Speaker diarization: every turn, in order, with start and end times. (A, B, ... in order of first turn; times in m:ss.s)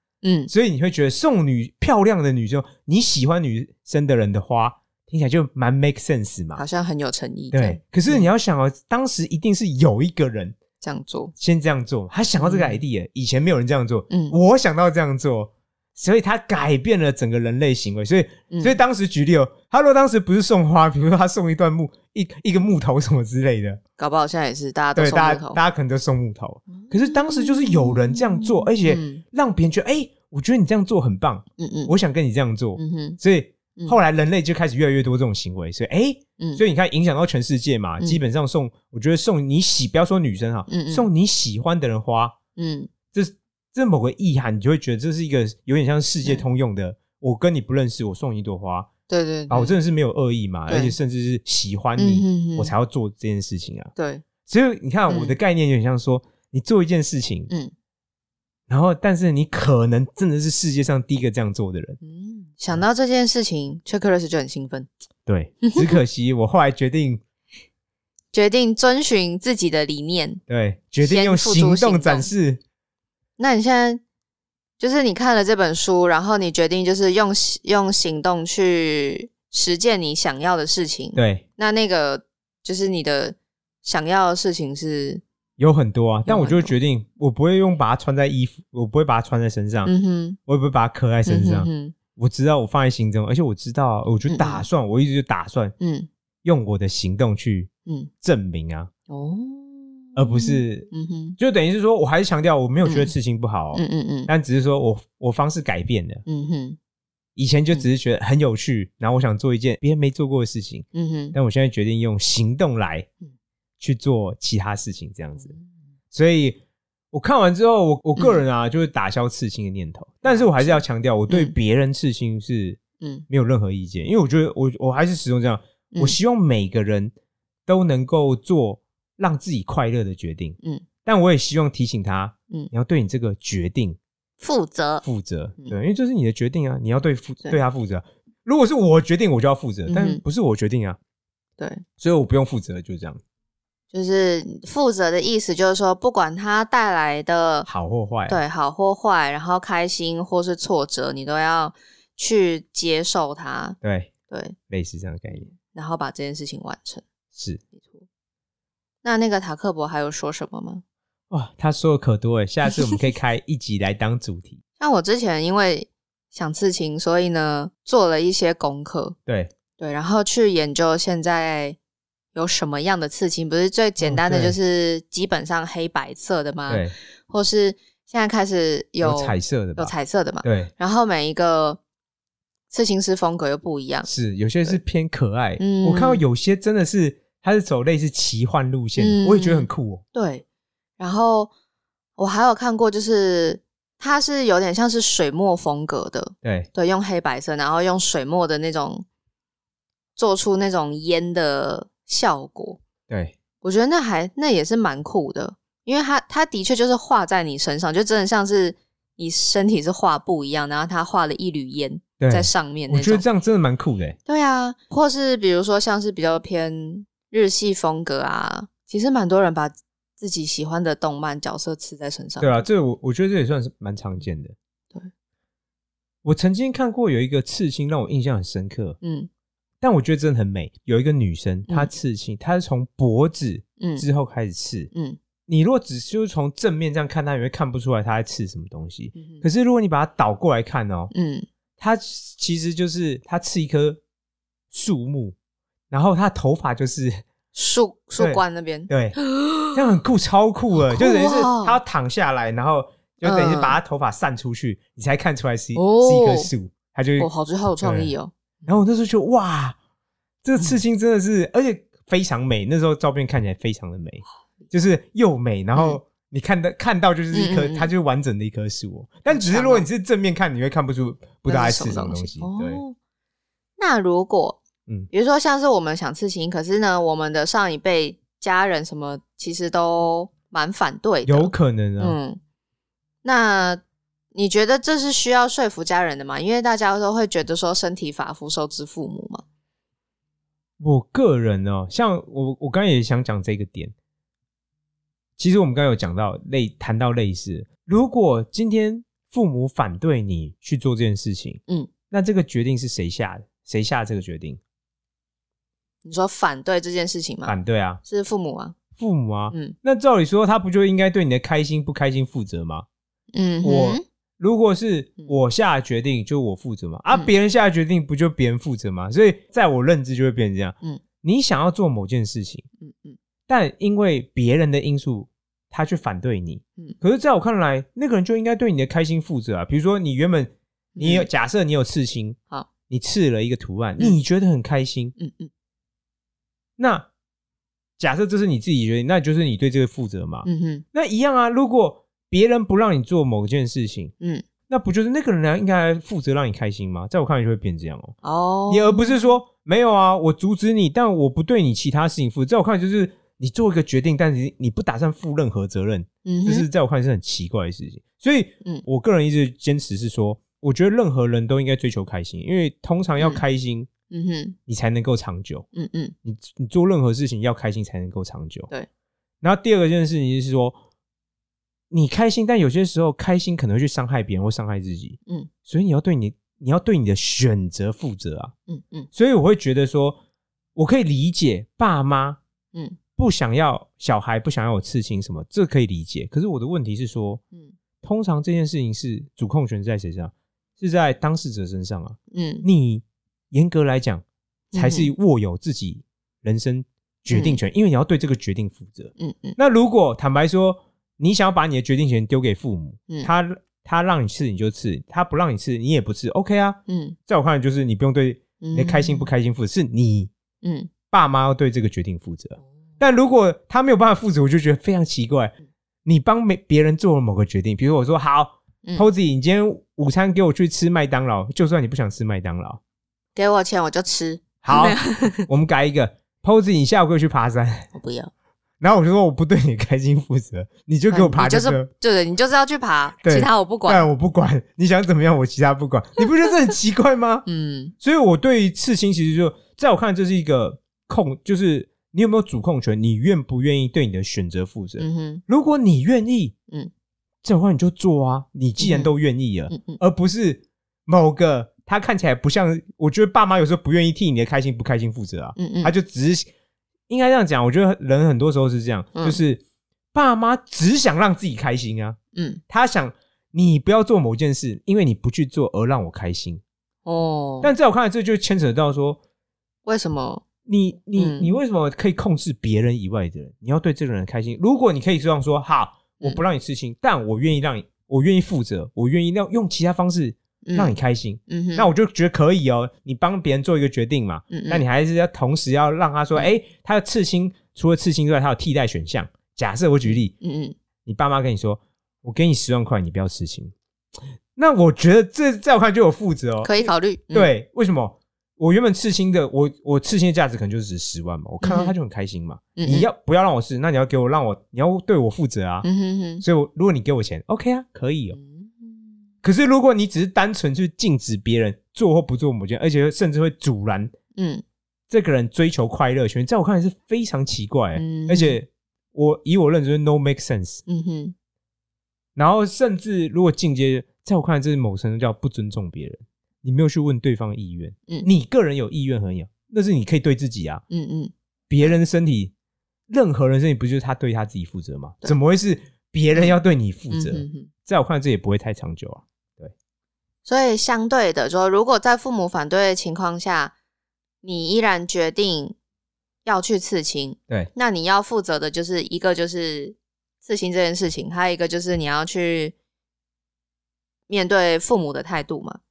0:00.2-0:00.5 A
0:00.5-0:06.6 B
0:06.6-0:08.3 A
0:07.5-0:10.6 B
0:10.8-0:11.3 A
0:11.4-0:23.8 B
0:12.4-0:12.8 A
0:14.1-0:14.4 A
0:18.5-0:18.8 A
0:24.0-0:25.6 A
0:25.0-0:42.4 B
0:26.7-0:29.2 A
0:31.6-0:31.9 A
0:32.8-0:33.2 A
0:40.7-0:41.1 A
0:42.6-0:42.9 A
0:43.1-0:48.9 B
0:49.1-0:49.8 A
0:49.5-0:53.9 B
0:50.7-0:51.0 A
0:52.0-0:52.7 A
0:54.0-0:54.2 A
0:54.5-0:57.5 B
0:55.1-0:55.4 A
0:58.7-1:02.0 B
1:02.0-1:04.9 A
1:05.3-1:07.2 B
1:05.6-1:06.0 A
1:08.3-1:10.4 A
1:10.5-1:12.6 B
1:11.0-1:12.3 A
1:13.4-1:14.0 A
1:14.8-1:25.2 A
1:21.2-1:21.4 B
1:25.6-1:29.9 B
1:26.3-1:26.7 A
1:29.8-1:30.4 A
1:30.5-1:35.8 B
1:31.3-1:32.0 A
1:34.3-1:34.7 A
1:35.8-1:36.1 A
1:36.4-1:37.7 B
1:38.2-1:38.9 B
1:39.1-1:41.4 A
1:40.2-1:46.2 B
1:42.8-1:43.1 A
1:43.7-1:44.3 A
1:46.3-1:46.8 A
1:47.4-1:53.1 B
1:50.9-1:51.4 A
1:53.8-1:55.5 B
1:55.4-1:55.7 A
1:56.1-1:56.6 B
1:57.1-2:07.1 B
2:00.2-2:01.6 A
2:05.9-2:06.2 A
2:07.7-2:14.0 B
2:14.4-2:15.0 A
2:15.0-2:21.0 B
2:19.9-2:20.2 A
2:21.6-2:21.8 A
2:22.0-2:23.2 B
2:23.9-2:27.7 A
2:27.7-2:28.4 B
2:28.3-2:33.8 A
2:33.8-2:34.1 B
2:34.3-2:34.6 A
2:34.7-2:35.5 B
2:35.3-2:37.0 A
2:37.4-2:37.6 B
2:37.8-2:38.0 A
2:39.0-2:40.8 A
2:41.3-2:44.6 B
2:44.8-2:49.2 A
2:49.8-2:51.8 A
2:52.3-3:01.8 A
2:54.0-2:54.6 B
2:56.7-2:56.9 B
2:59.0-2:59.9 B
3:00.4-3:00.7 B
3:02.7-3:04.1 A
3:04.1-3:10.0 B
3:05.6-3:06.2 A
3:09.0-3:10.4 A
3:11.0-3:11.5 A
3:12.2-3:19.1 A
3:16.4-3:16.7 B
3:20.2-3:22.8 A
3:23.1-3:23.4 B
3:23.6-3:33.2 A
3:32.2-3:34.2 B
3:34.3-3:42.7 A
3:42.4-3:44.5 B
3:46.2-3:49.0 B
3:49.0-3:49.3 A
3:49.8-3:54.9 B
3:53.8-3:54.0 A
3:54.9-3:55.2 A
3:55.5-4:01.1 B
3:59.2-3:59.4 A
4:01.1-4:01.5 A
4:01.8-4:04.0 B
4:04.7-4:05.4 B
4:05.9-4:07.2 B
4:07.5-4:09.8 A
4:08.2-4:09.2 B
4:09.7-4:18.1 B
4:10.7-4:11.8 A
4:13.2-4:13.8 A
4:15.8-4:16.5 A
4:17.2-4:18.8 A
4:18.7-4:19.8 B
4:20.4-4:32.8 B
4:27.3-4:27.9 A
4:29.3-4:29.9 A
4:31.5-4:33.0 A
4:33.8-4:42.4 A
4:41.2-4:42.2 B
4:43.2-4:43.8 A
4:44.3-4:49.4 A
4:50.8-4:53.9 B
4:55.4-5:04.6 B
5:06.0-5:08.8 A
5:07.5-5:08.0 B
5:09.0-5:12.9 B
5:09.5-5:09.8 A
5:13.3-5:14.0 A
5:13.6-5:22.7 B
5:22.8-5:23.2 A
5:23.5-5:35.2 B
5:31.0-5:31.3 A
5:35.2-5:35.5 A
5:36.8-5:37.1 B
5:38.0-5:44.1 B
5:40.4-5:40.8 A
5:44.7-5:48.2 B
5:48.2-5:49.3 A
5:48.7-6:03.9 B
5:56.2-5:56.7 A
6:04.1-6:04.6 A
6:04.7-6:05.7 B
6:05.7-6:06.2 A
6:06.2-6:08.7 B
6:09.4-6:10.8 B
6:11.9-6:18.5 B
6:18.7-6:19.1 A
6:19.1-6:20.2 B
6:20.8-6:22.4 B
6:23.2-6:27.4 B
6:28.0-6:34.2 B
6:32.3-6:32.7 A
6:34.7-6:35.1 A
6:34.8-6:50.3 B
6:37.3-6:37.6 A
6:39.2-6:39.6 A
6:46.9-6:47.2 A
6:48.6-6:49.3 A
6:50.6-6:50.9 A
6:51.1-6:55.5 B
6:56.0-7:02.8 B
7:03.4-7:05.5 A
7:04.6-7:07.9 B
7:07.9-7:08.3 A
7:08.8-7:11.9 B
7:11.1-7:14.1 A
7:13.2-7:17.4 B
7:17.5-7:17.9 A
7:18.0-7:26.6 B
7:25.0-7:25.4 A
7:27.4-7:36.5 B
7:28.8-7:29.1 A
7:29.7-7:30.0 A
7:35.6-7:35.9 A
7:37.1-7:39.6 B
7:40.1-7:42.2 B
7:42.3-7:42.6 A
7:42.7-7:46.6 B
7:47.1-7:47.7 A
7:47.6-7:49.2 B
7:49.9-7:50.4 A
7:50.7-8:10.3 B
7:51.2-7:51.5 A
8:00.6-8:01.9 A
8:04.5-8:04.8 A
8:10.1-8:10.8 A
8:11.1-8:13.7 B
8:14.6-8:25.9 B
8:16.6-8:17.5 A
8:21.6-8:22.0 A
8:22.8-8:23.1 A
8:25.8-8:26.4 A
8:26.4-8:28.4 B
8:28.3-8:29.3 A
8:29.4-8:34.1 B
8:34.4-8:34.6 A
8:35.1-8:40.8 B
8:38.0-8:38.6 A
8:40.9-8:41.4 A
8:42.4-8:50.8 B
8:50.9-8:52.0 A
8:51.7-8:52.5 B
8:53.1-8:59.7 B
8:57.1-8:57.7 A
9:00.4-9:03.7 A
9:04.4-9:05.8 A
9:06.4-9:12.8 A
9:14.3-9:15.8 A